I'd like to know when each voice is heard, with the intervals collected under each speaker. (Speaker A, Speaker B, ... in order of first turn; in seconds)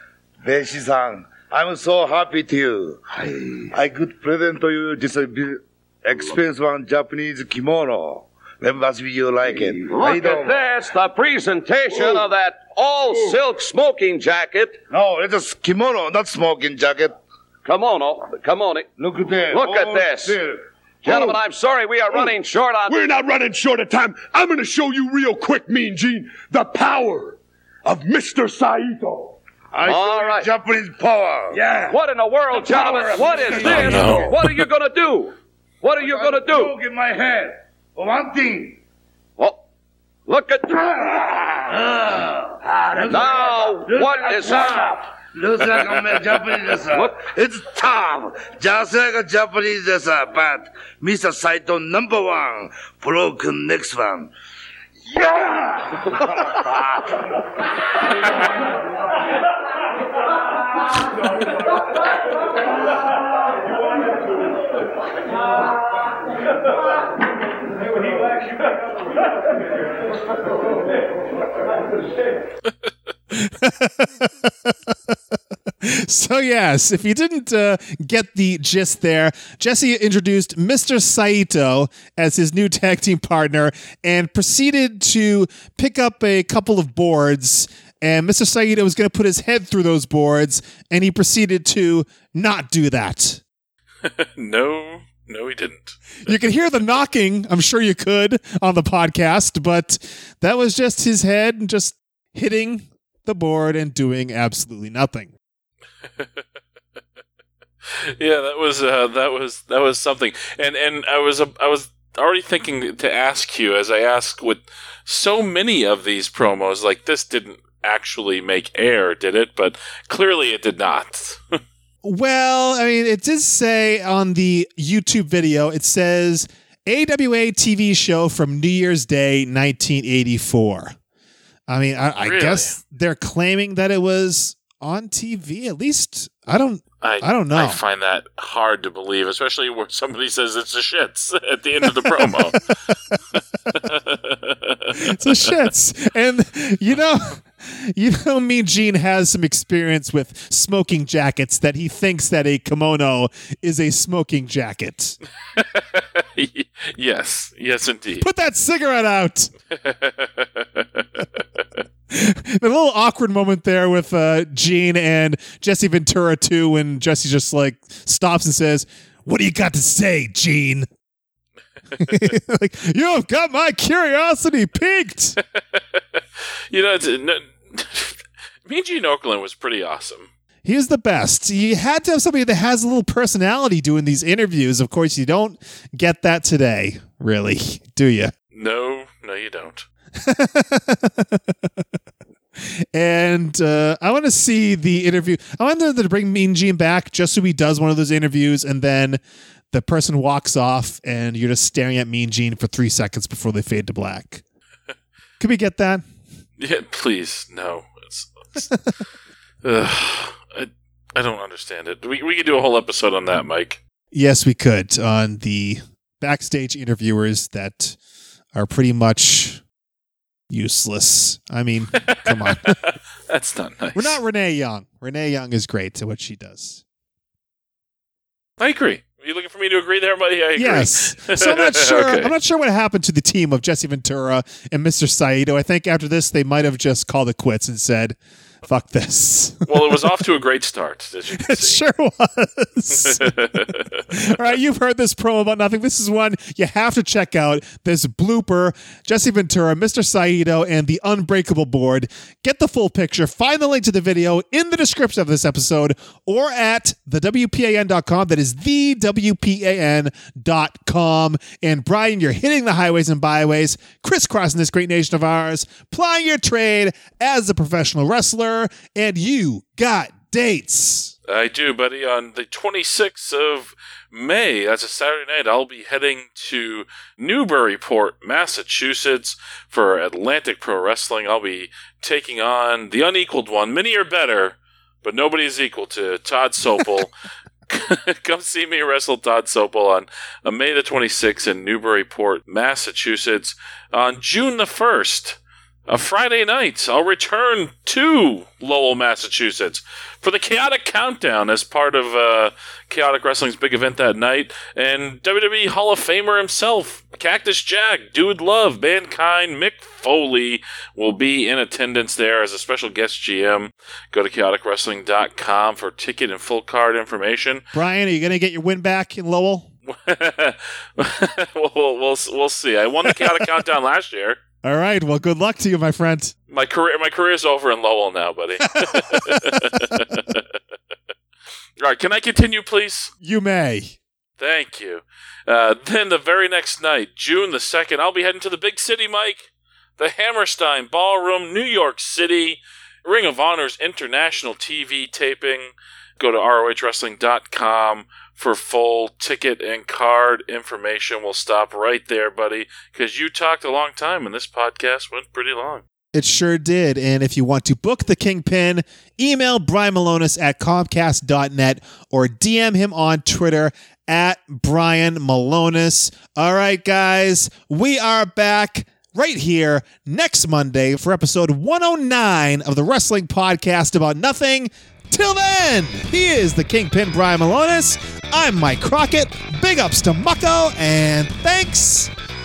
Speaker A: 0.4-10.7, 11.9-12.3, 13.1-13.4, 14.9-17.2, 19.0-20.6, 29.7-32.0, 32.5-34.5, 36.0-38.8, 41.6-54.3, 55.1-56.8
Speaker B: 9.9-14.8, 17.6-18.9, 19.5-20.4, 21.0-23.0, 29.8-30.5, 31.9-36.7, 40.3-41.3, 43.1-44.8
Speaker C: 22.9-29.4, 33.5-33.9
Speaker D: 33.6-34.4, 94.0-96.3, 106.2-106.4, 107.9-121.5, 132.2-132.8, 137.0-142.7, 143.8-145.6, 155.5-158.3, 159.7-161.8, 175.5-180.3, 188.5-189.9, 206.6-208.7, 209.6-213.8, 221.9-224.2, 228.6-232.3, 239.7-241.8, 242.9-244.1, 271.3-287.1, 287.7-317.7, 319.9-324.4, 326.5-330.4, 331.8-333.1, 334.4-355.8
Speaker E: 73.3-75.1, 75.8-93.4, 96.2-105.3, 122.0-130.9, 131.7-137.8, 141.9-142.9, 144.9-155.2, 158.2-159.5, 162.1-170.9, 172.0-175.4, 180.6-188.3, 190.2-191.8, 192.6-204.4, 205.4-206.0, 214.1-217.9, 218.6-219.6, 220.5-222.8, 223.9-226.8, 230.6-240.1, 241.4-271.1, 317.7-319.7, 323.1-323.6, 324.6-326.3, 328.8-329.9, 333.2-334.0, 356.1-382.1